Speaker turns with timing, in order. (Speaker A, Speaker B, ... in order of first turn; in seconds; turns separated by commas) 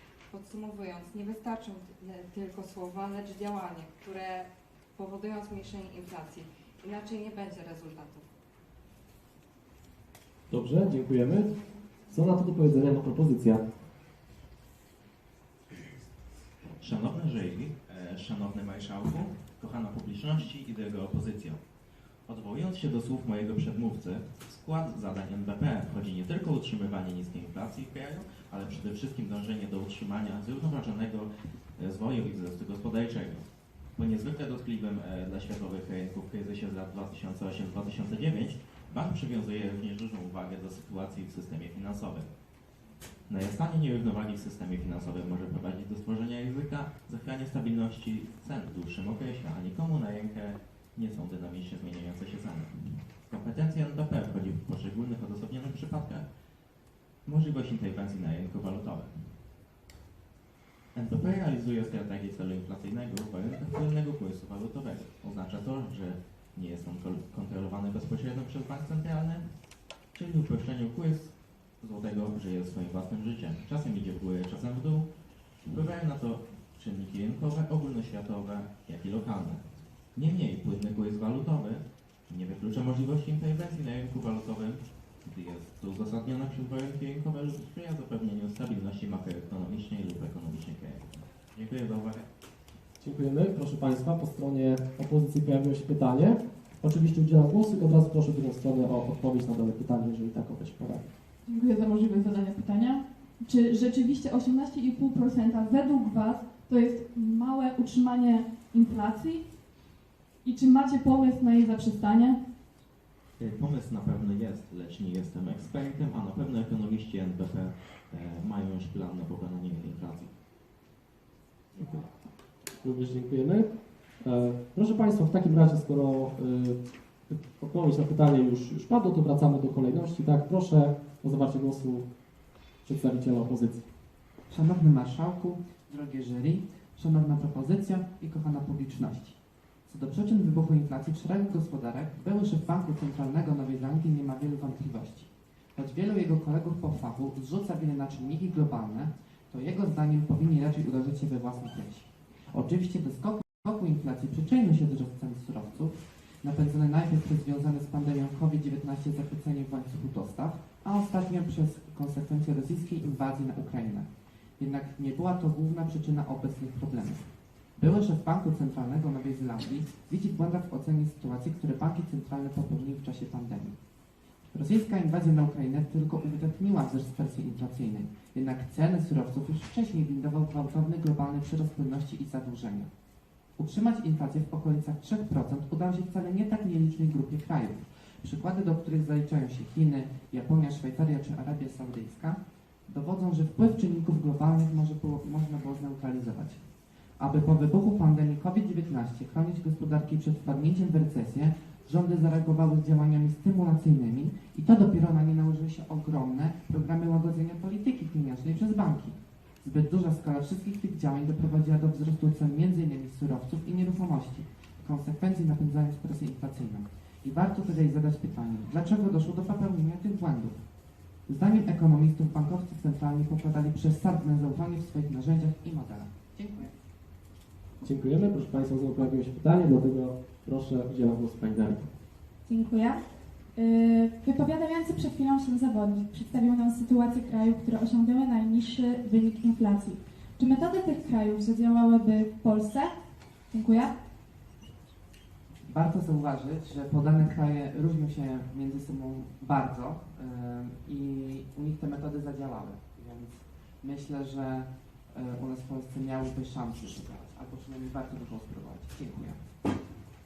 Speaker A: 0.3-8.2, Speaker B: 10.5-11.5, Speaker B: 12.1-13.6, Speaker C: 16.8-21.6, Speaker C: 22.2-42.3, Speaker C: 43.3-56.2, Speaker C: 57.2-59.4, Speaker C: 60.9-69.6, Speaker C: 70.1-75.1, Speaker C: 75.6-92.3, Speaker B: 93.0-101.1, Speaker D: 101.5-109.4, Speaker D: 110.4-112.4, Speaker C: 113.4-120.3, Speaker B: 122.8-132.1, Speaker B: 132.8-133.8, Speaker E: 134.5-173.8, Speaker E: 174.5-182.9, Speaker E: 183.6-196.6, Speaker E: 197.2-220.6, Speaker E: 221.2-226.7, Speaker B: 227.8-231.9, Speaker F: 232.4-233.0, Speaker F: 233.5-242.9, Speaker F: 243.5-243.9, Speaker E: 245.7-259.5